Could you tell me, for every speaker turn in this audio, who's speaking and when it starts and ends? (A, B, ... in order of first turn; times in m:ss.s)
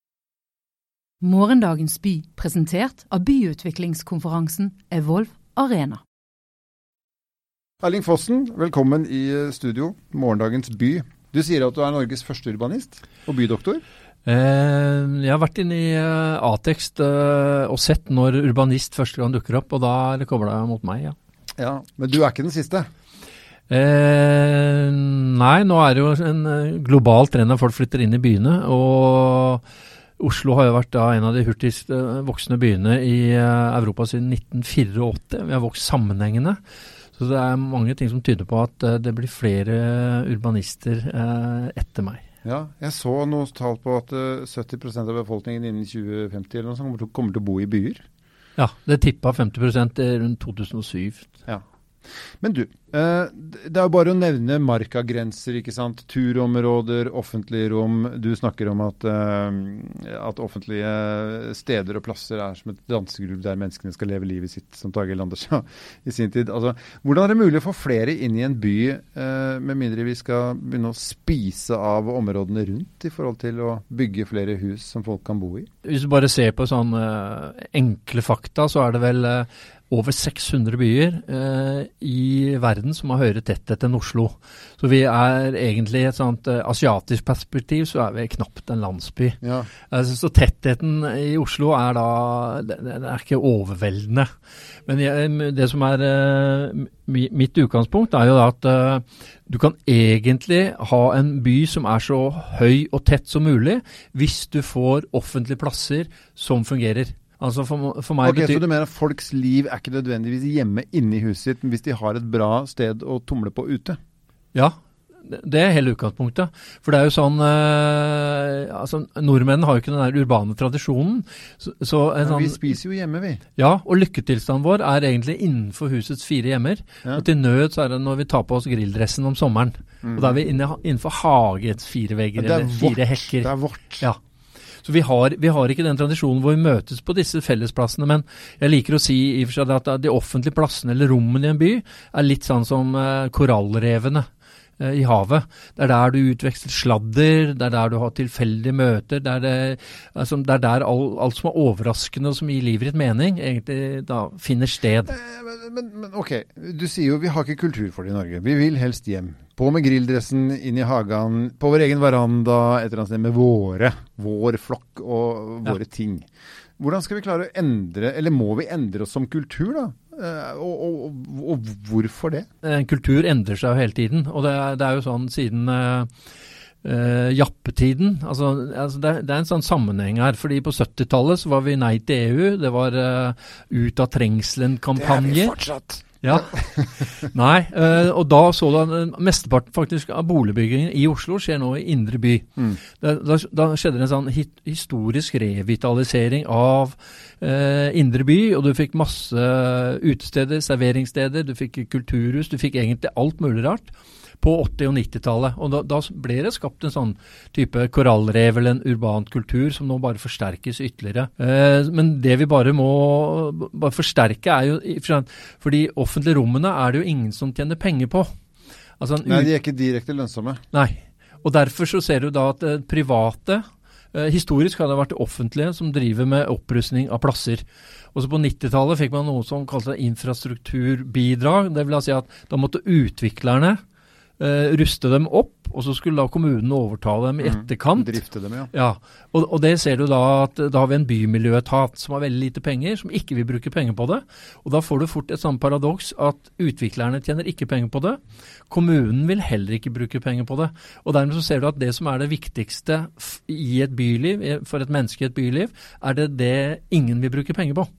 0:01.2-0:06.0 A
0:07.8-0:13.8 B
0:14.3-0:21.2 C
0:21.6-0:22.9 B
0:23.7-0:29.6 C
0:30.2-0:36.6 C
0:37.2-0:42.2 C
0:42.4-0:48.0 B
0:48.6-0:51.3 C
0:52.4-1:15.7 B
1:15.8-1:34.3 C
1:29.4-1:29.7 B
1:34.9-1:48.6 C
1:48.2-1:54.0 B
1:54.5-2:02.7 C
2:02.2-2:03.4 B
2:03.6-2:13.5 C
2:10.0-2:10.4 B
2:12.4-2:14.1 B
2:14.8-2:24.3 C
2:24.8-2:35.1 C
2:35.1-2:46.3 B
2:46.8-2:52.5 B
2:52.6-2:56.1 C
2:56.8-3:05.6 C
3:05.0-3:06.0 B
3:06.2-3:38.3 C
3:39.0-3:39.5 C
3:39.3-3:40.6 B
3:40.7-3:53.8 C
3:54.4-3:58.2 C
3:57.4-3:58.7 B
3:58.7-4:17.9 C